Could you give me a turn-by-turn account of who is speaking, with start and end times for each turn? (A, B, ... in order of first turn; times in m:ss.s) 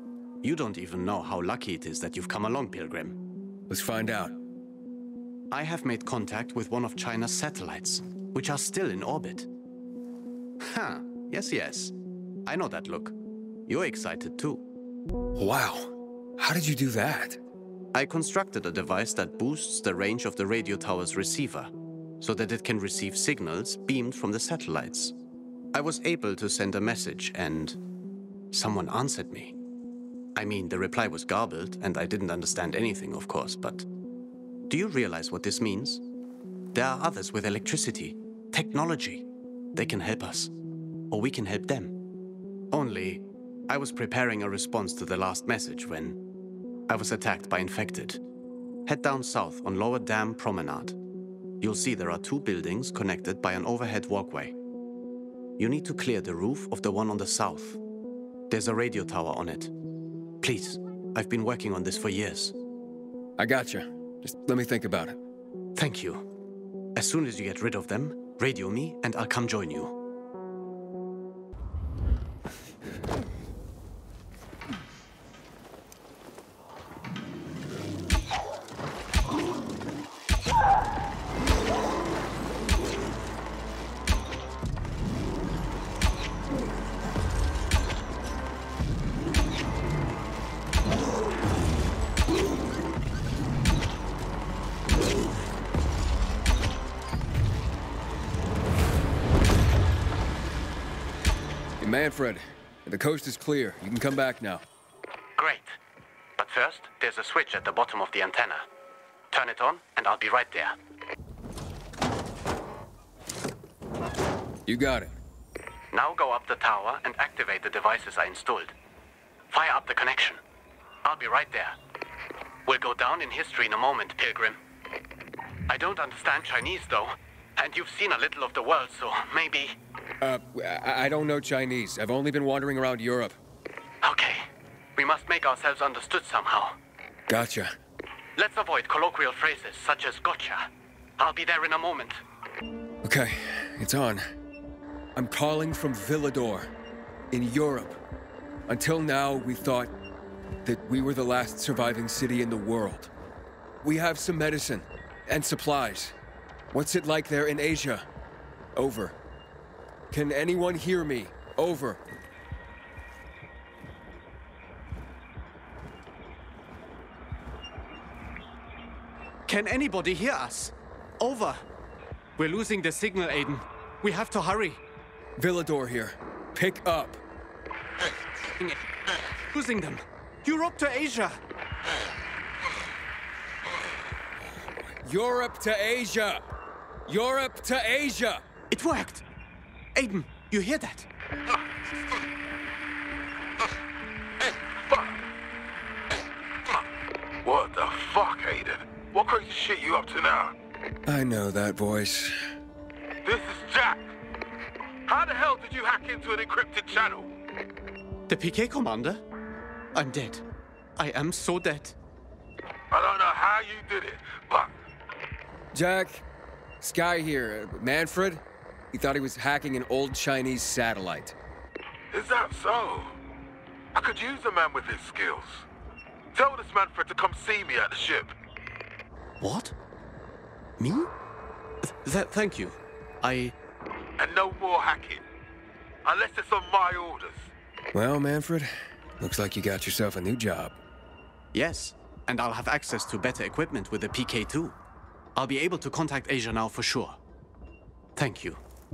0:00.4-0:03.2 A
0:03.7-0:04.3 B
0:05.5-0:09.5 A
0:10.6-0:11.9 A
0:12.4-0:13.2 A
0:13.7-0:14.6 A
0:15.4-0:17.4 B
0:17.9-0:25.1 A
0:25.7-0:27.8 A
0:28.5-0:29.6 A
0:30.3-0:33.9 A
0:34.7-0:36.0 A
0:36.7-0:40.5 A
0:41.1-0:42.0 A
0:42.7-0:46.2 A
0:46.9-0:48.2 A
0:48.8-0:51.0 A
0:51.6-0:54.5 A
0:55.6-0:57.8 A
0:58.5-0:59.7 A
1:00.4-1:02.5 A
1:03.4-1:05.1 B
1:05.7-1:06.3 A
1:06.9-1:10.0 A
1:41.8-1:44.6 B
1:45.4-1:45.8 A
1:46.4-1:48.6 A
1:49.3-1:50.8 A
1:54.7-1:55.1 B
1:55.9-1:58.7 A
1:59.5-2:00.4 A
2:01.0-2:01.8 A
2:02.6-2:04.6 A
2:05.7-2:09.8 A
2:10.2-2:13.4 B
2:14.0-2:16.8 A
2:17.3-2:17.7 B
2:18.4-2:22.2 A
2:23.0-2:24.2 B
2:25.2-2:26.7 B
2:27.3-2:28.0 B
2:28.7-2:29.9 B
2:30.6-2:33.1 B
2:33.8-2:36.1 B
2:36.7-2:38.0 B
2:38.7-2:39.2 B
2:40.1-2:42.0 B
2:49.5-2:51.6 A
2:52.4-2:54.8 A
2:55.4-2:57.2 B
2:58.6-3:01.4 A
3:05.0-3:06.4 B
3:07.1-3:08.4 B
3:08.7-3:09.2 A
3:10.0-3:11.1 A
3:14.8-3:15.2 C
3:17.4-3:20.5 C
3:21.0-3:22.4 B
3:23.2-3:24.1 C
3:25.1-3:27.3 C
3:28.3-3:29.2 A
3:29.9-3:30.4 A
3:31.0-3:32.0 A
3:32.9-3:34.7 C
3:35.7-3:36.2 B
3:36.8-3:41.3 B
3:42.1-3:43.1 C
3:43.9-3:45.6 C
3:46.3-3:48.3 C
3:49.4-3:49.7 A
3:50.8-3:51.1 A
3:51.8-3:53.5 A
3:54.2-3:55.2 C
3:56.0-3:57.5 C
3:57.9-3:58.7 B
3:59.2-4:00.8 B
4:01.5-4:04.8 A
4:05.4-4:07.2 A
4:08.2-4:08.6 A